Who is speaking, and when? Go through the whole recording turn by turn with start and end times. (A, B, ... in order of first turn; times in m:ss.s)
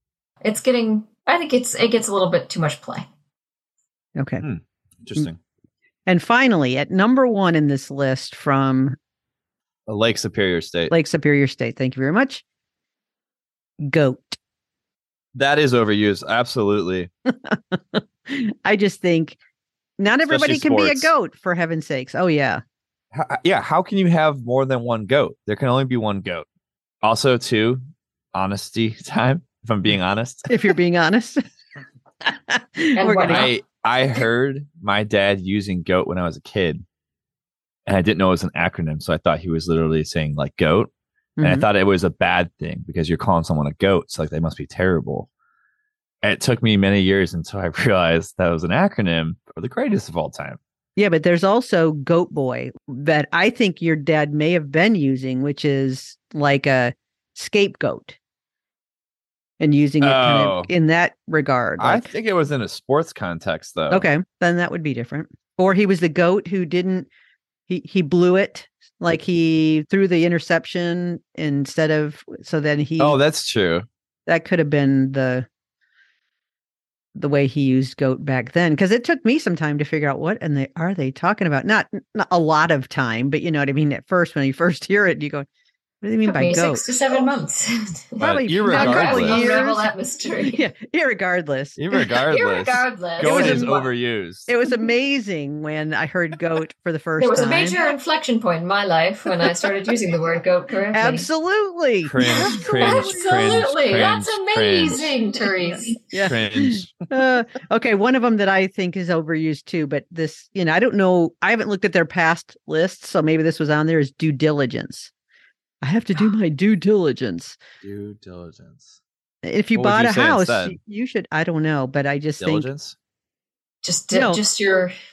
0:00.4-0:03.1 A
0:04.2-0:04.4 B
0:04.4-0:05.4 C
0:06.0-0:09.0 B
0:09.9-0:10.9 C
0:10.9-0:12.4 B
0:13.8-0:14.4 B
0:15.3-0:17.1 C
0:17.3-0:19.4 B
0:20.0-0:22.6 B
0:20.3-0:21.1 C
0:23.1-0:26.4 C
0:27.0-0:27.8 C
0:28.3-0:30.6 C
0:30.5-0:31.4 B
0:32.2-0:33.5 B
0:33.0-0:33.5 A
0:33.2-0:36.8 C
0:37.9-0:45.3 C
0:41.4-0:41.7 B
0:46.2-0:50.6 C
0:51.0-0:58.2 B
0:59.6-1:02.1 B
1:00.0-1:00.7 C
1:01.8-1:04.1 C
1:03.9-1:07.1 B
1:07.7-1:13.2 B
1:13.0-1:13.9 C
1:14.3-1:15.4 B
1:17.1-1:25.5 B
1:26.0-1:26.9 B
1:26.2-1:30.6 A
1:28.2-1:29.4 C
1:28.2-1:29.9 B
1:30.4-1:31.8 B
1:31.8-1:34.5 C
1:32.2-1:33.8 A
1:33.2-1:33.9 B
1:34.5-1:37.8 B
1:37.2-1:41.3 A
1:40.9-1:43.3 B
1:42.0-1:45.2 C
1:42.2-1:46.0 A
1:46.1-1:55.1 B
1:46.2-1:47.1 C
1:55.8-1:57.6 B
1:57.8-1:58.9 C
1:59.4-2:02.7 B
1:59.7-2:00.8 C
2:02.4-2:02.9 C
2:03.8-2:04.9 A
2:04.1-2:04.4 B